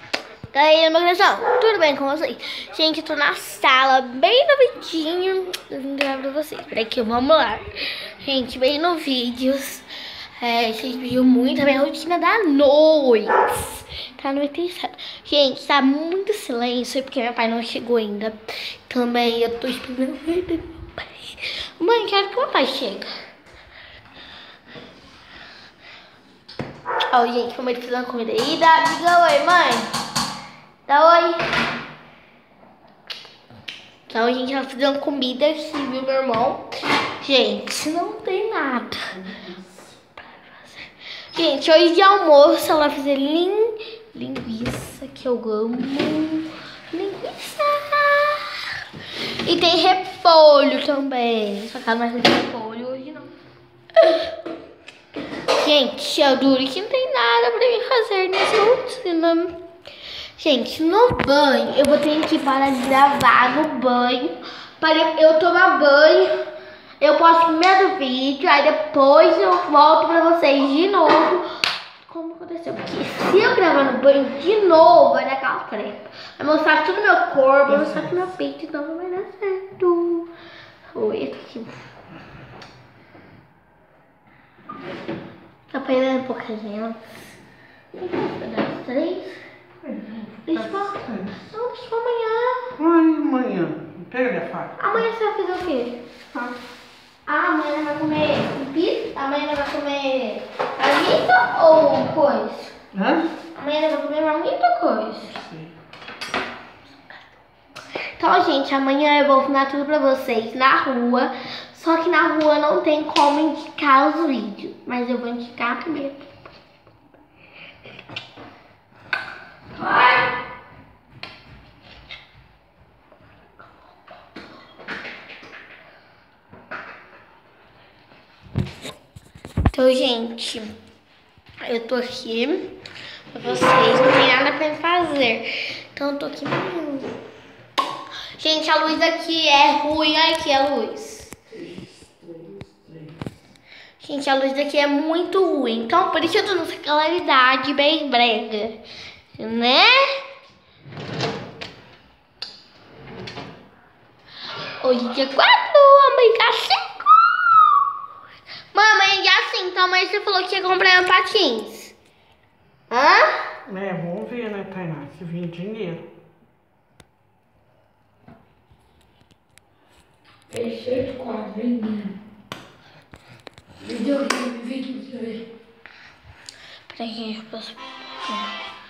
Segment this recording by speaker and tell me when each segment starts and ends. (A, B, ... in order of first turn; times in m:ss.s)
0:00.5-0:09.9 A
0:10.4-0:23.1 A
0:27.1-0:29.9 A
0:30.9-0:31.4 A
0:34.1-0:36.7 A
0:37.2-0:39.2 A
0:40.2-0:48.7 A
0:49.4-0:53.3 A
0:54.0-0:54.3 A
0:55.5-0:59.6 A
1:00.4-1:06.4 A
1:07.0-1:11.5 A
1:12.0-1:20.3 A
1:17.8-1:18.2 B
1:20.9-1:21.7 A
1:25.7-1:27.2 A
1:27.9-1:29.4 A
1:29.8-1:31.4 B
1:30.5-1:32.7 A
1:32.8-1:34.9 B
1:34.8-1:36.5 A
1:37.3-1:42.7 A
1:42.9-1:43.3 B
1:43.6-1:45.4 A
1:45.4-1:45.8 B
1:48.2-1:56.3 A
1:59.7-2:00.3 A
2:09.7-2:10.7 A
2:11.6-2:12.7 A
2:13.3-2:17.1 A
2:18.4-2:21.4 A
2:21.6-2:23.1 B
2:24.0-2:28.8 A
2:29.4-2:30.2 A
2:34.8-2:37.4 A
2:38.7-2:42.0 A
2:42.9-2:43.4 A
2:43.7-2:46.1 B
2:50.5-2:52.1 C
2:53.8-2:55.4 C
2:56.9-2:58.6 A